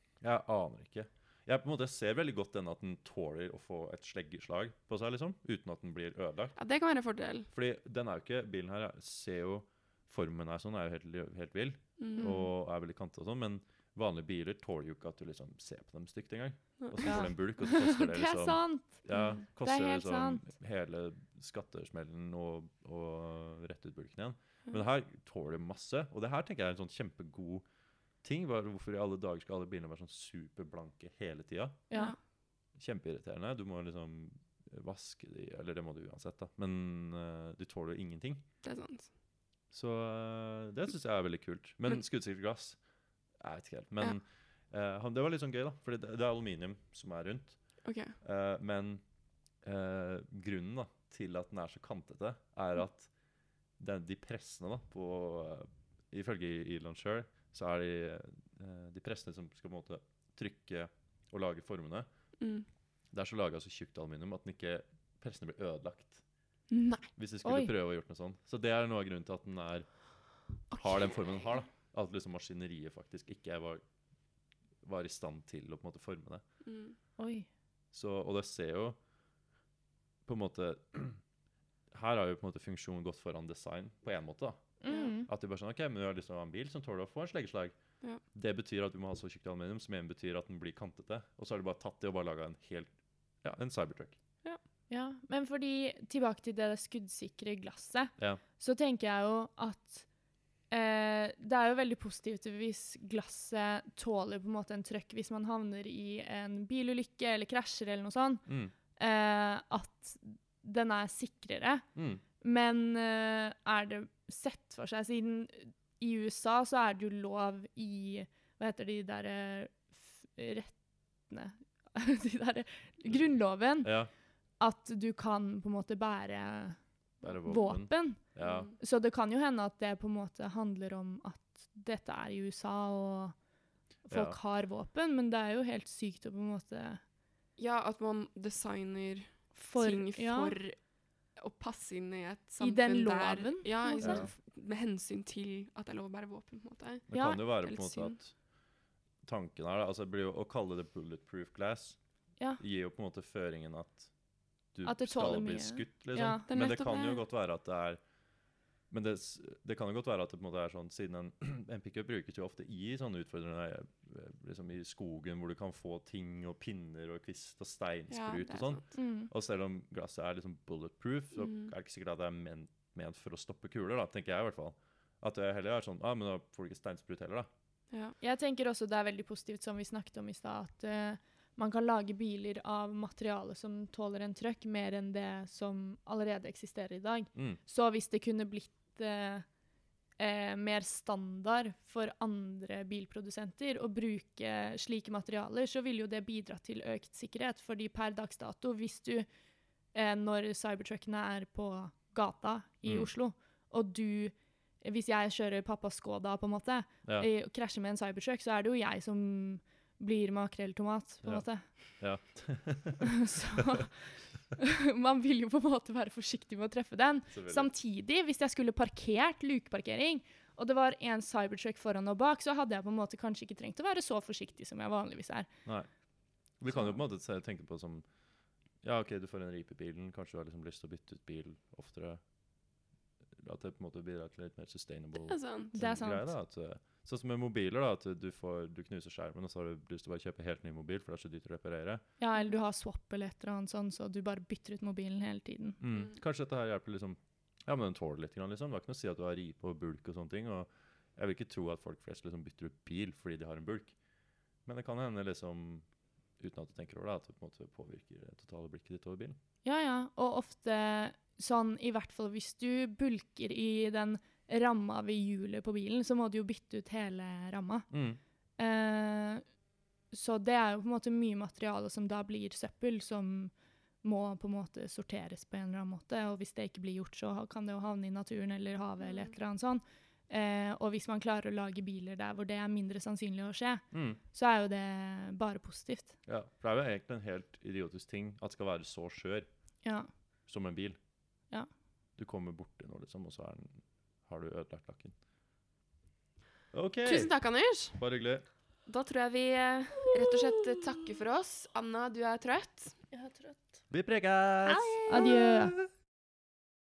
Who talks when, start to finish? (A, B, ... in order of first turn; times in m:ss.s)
0:00.2-0:06.6 A
0:06.6-0:07.5 B
0:07.5-0:27.6 A
0:12.0-0:12.4 B
0:12.2-0:12.5 C
0:16.8-0:17.3 B
0:17.0-0:19.0 C
0:19.1-0:19.4 B
0:19.6-0:20.4 C
0:28.2-0:31.8 A
0:32.8-0:38.4 A
0:38.6-0:39.1 B
0:39.7-0:42.8 A
0:43.4-0:47.6 A
0:47.8-0:48.2 B
0:48.2-0:49.0 A
0:49.6-0:53.1 A
0:53.8-1:02.1 A
1:02.4-1:02.7 B
1:03.1-1:06.2 A
1:06.7-1:07.1 B
1:07.2-1:09.9 A
1:07.4-1:07.7 C
1:10.7-1:11.6 B
1:10.8-1:13.8 A
1:14.8-1:16.4 A
1:16.6-1:17.0 B
1:17.2-1:17.5 C
1:17.9-1:19.0 A
1:20.3-1:21.2 A
1:21.9-1:24.7 A
1:24.8-1:25.3 C
1:25.3-1:27.8 A
1:28.3-1:32.9 A
1:33.4-1:34.2 A
1:34.9-1:40.1 C
1:40.7-1:48.4 C
1:48.5-1:48.7 A
1:49.0-1:51.8 C
1:52.0-1:52.2 A
1:52.4-2:03.9 C
2:03.8-2:04.1 A
2:04.6-2:08.3 C
2:07.2-2:08.7 A
2:08.4-2:08.8 B
2:08.8-2:13.4 C
2:14.1-2:17.0 C
2:14.1-2:14.4 A
2:17.6-2:20.8 B
2:19.6-2:20.6 C
2:21.4-2:28.2 B
2:22.6-2:24.3 C
2:24.0-2:24.3 A
2:27.1-2:28.3 A
2:27.1-2:27.4 C
2:29.2-2:32.0 A
2:32.6-2:34.1 A
2:34.7-2:38.0 A
2:34.8-2:36.5 C
2:36.5-2:37.2 B
2:38.9-2:57.5 A
2:48.1-2:48.8 B
2:48.9-2:49.3 C
2:51.4-2:51.7 B
2:58.2-3:09.5 C
3:07.4-3:07.6 A
3:10.2-3:19.3 C
3:19.9-3:31.6 C
3:32.0-3:33.8 A
3:33.0-3:45.5 C
3:37.3-3:37.7 A
3:46.6-3:48.0 A
3:48.8-3:52.2 A
3:53.4-4:02.0 A
3:55.2-3:55.7 B
3:55.7-3:56.3 C
4:02.2-4:05.8 C
4:05.8-4:14.0 A
4:14.7-4:15.8 A
4:16.4-4:19.4 A
4:19.6-4:27.9 C
4:27.9-4:28.2 A
4:28.6-4:29.4 C
4:30.1-4:46.2 C
4:43.9-4:44.2 A
4:46.3-4:49.5 A
4:49.8-4:50.1 C
4:50.5-4:51.0 A
4:52.2-4:55.2 A
4:56.7-4:57.3 A
4:57.0-4:58.0 B
4:58.0-4:58.4 A
4:58.9-5:03.0 B
5:03.1-5:03.7 C
5:03.9-5:05.8 A
5:04.7-5:05.2 B
5:05.1-5:05.8 C